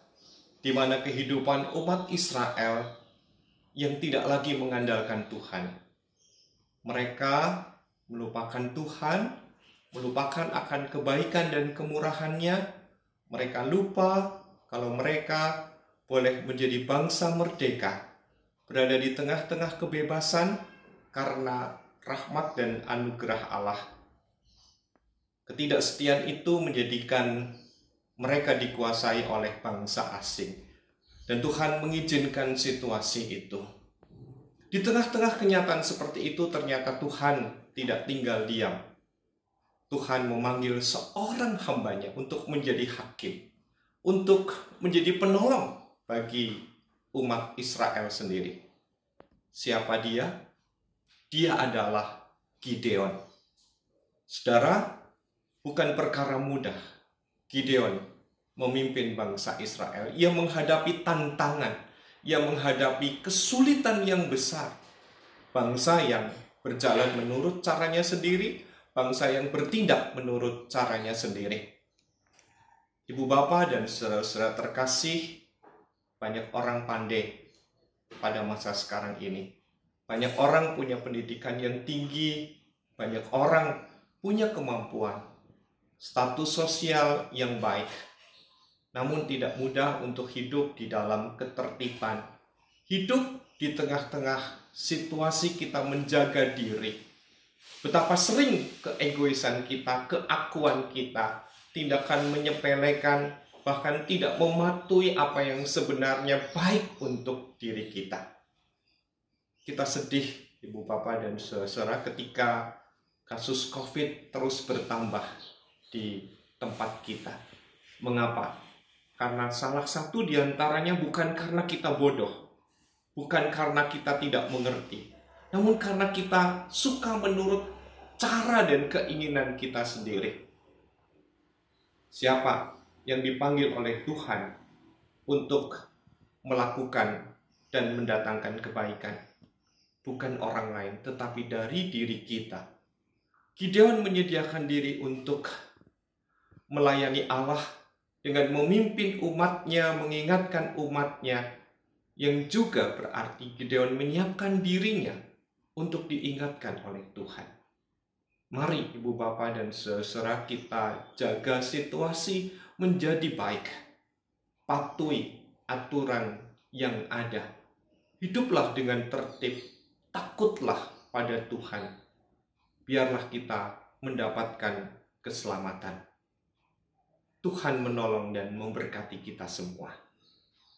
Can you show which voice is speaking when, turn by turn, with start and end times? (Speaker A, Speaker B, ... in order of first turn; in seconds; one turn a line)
Speaker A: 0.6-2.9
Speaker A: 3.8-5.7
Speaker A: 6.8-9.3
Speaker A: 9.9-12.6
Speaker A: 13.3-18.0
Speaker A: 18.7-20.6
Speaker A: 21.1-23.8
Speaker A: 25.5-27.5
Speaker A: 28.2-30.6
Speaker A: 31.3-33.6
Speaker A: 34.7-38.8
Speaker A: 39.9-43.5
Speaker A: 44.0-46.6
Speaker A: 47.1-48.6
Speaker A: 49.5-50.4
Speaker A: 51.3-53.2
Speaker A: 54.3-55.0
Speaker A: 55.6-56.8
Speaker A: 57.5-58.0
Speaker A: 58.6-64.8
Speaker A: 65.5-71.7
Speaker A: 73.1-75.4
Speaker A: 76.2-77.4
Speaker A: 78.2-79.5
Speaker A: 80.1-85.2
Speaker A: 86.0-87.9
Speaker A: 88.9-92.2
Speaker A: 92.9-97.0
Speaker A: 97.8-108.2
Speaker A: 109.7-112.6
Speaker A: 113.3-115.3
Speaker A: 115.9-117.4
Speaker A: 118.0-118.5
Speaker A: 119.2-122.3
Speaker A: 123.2-130.4
Speaker A: 132.1-134.5
Speaker A: 135.3-135.8
Speaker A: 136.4-137.2
Speaker A: 137.7-139.2
Speaker A: 140.0-142.6
Speaker A: 143.6-145.5
Speaker A: 146.7-147.6
Speaker A: 148.2-151.4
Speaker A: 152.2-155.2
Speaker A: 155.8-157.5
Speaker A: 158.5-163.8
Speaker A: 164.7-167.5
Speaker A: 168.2-171.9
Speaker A: 172.9-176.0
Speaker A: 177.4-179.9